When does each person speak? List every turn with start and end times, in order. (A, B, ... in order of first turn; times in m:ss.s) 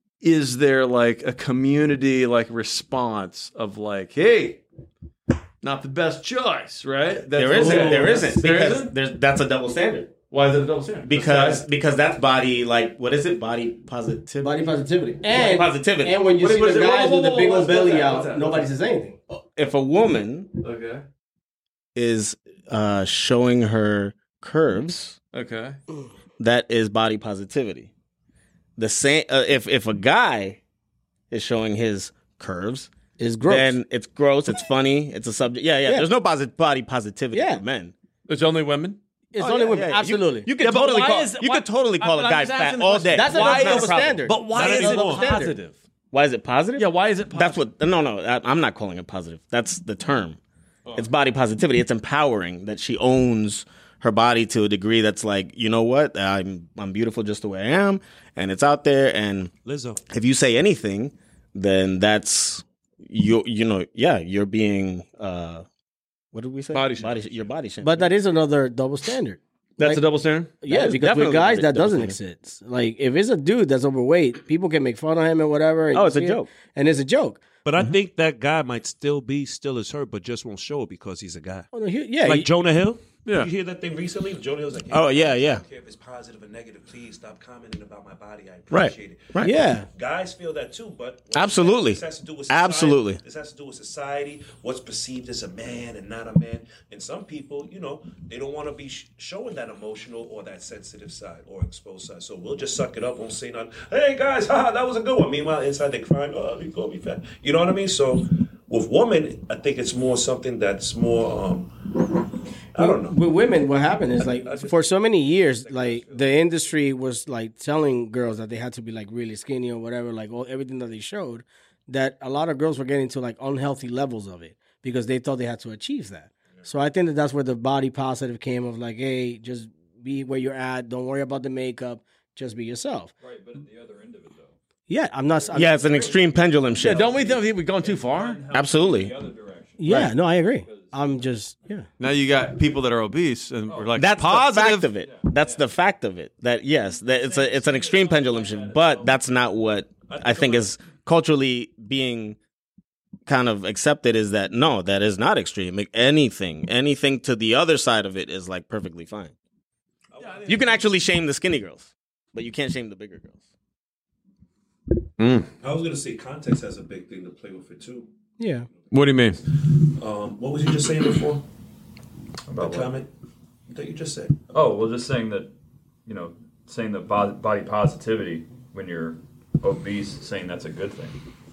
0:00.2-0:04.6 A
0:05.6-0:08.9 A
0:07.4-0:10.2 B
0:07.6-0:07.9 C
0:10.3-0:11.6 A
0:11.0-0:14.5 B
0:14.4-0:19.2 C
0:15.3-0:16.2 B
0:16.3-0:18.7 A
0:19.3-0:20.5 B
0:20.6-0:21.0 A
0:22.0-0:25.2 B
0:25.3-0:25.8 A
0:26.4-0:27.9 B
0:28.8-0:30.6 B
0:31.3-0:32.9 B
0:33.2-0:33.8 C
0:33.5-0:37.9 B
0:37.3-0:37.6 C
0:38.3-0:39.0 A
0:39.3-0:40.5 C
0:39.4-0:44.2 B
0:40.6-0:45.8 A
0:43.1-0:45.6 C
0:44.5-0:45.3 D
0:46.1-0:50.4 B
0:46.8-0:47.6 A
0:51.0-0:59.5 B
0:59.6-1:00.0 D
1:00.1-1:05.7 B
1:06.3-1:08.1 B
1:06.7-1:07.3 A
1:07.8-1:10.0 C
1:09.8-1:10.6 A
1:10.6-1:17.4 C
1:10.6-1:12.2 B
1:15.9-1:16.5 B
1:17.6-1:21.7 D
1:21.7-1:22.5 C
1:22.2-1:51.8 D
1:23.2-1:23.5 A
1:24.9-1:25.6 B
1:28.7-1:29.6 B
1:29.4-1:29.9 C
1:31.3-1:33.2 B
1:52.8-1:53.2 D
1:52.8-2:13.1 C
1:54.2-1:56.3 D
2:13.2-2:14.6 E
2:14.9-2:15.9 C
2:15.5-2:21.1 E
2:15.5-2:17.1 B
2:16.8-2:18.4 A
2:18.5-2:19.1 B
2:19.8-2:21.9 C
2:19.9-2:20.1 B
2:22.0-2:25.0 A
2:24.0-2:32.4 B
2:25.0-2:25.6 E
2:27.0-2:29.1 E
2:30.1-2:30.7 D
2:33.3-2:39.3 B
2:40.1-2:40.8 D
2:40.5-2:43.4 B
2:45.2-2:45.5 A
2:45.6-2:48.1 D
2:48.4-2:48.7 C
2:48.9-2:49.6 A
2:49.9-2:51.4 D
2:52.5-2:52.9 E
2:52.6-2:53.1 D
2:53.7-2:54.4 D
2:54.5-2:55.5 E
2:56.1-3:01.2 E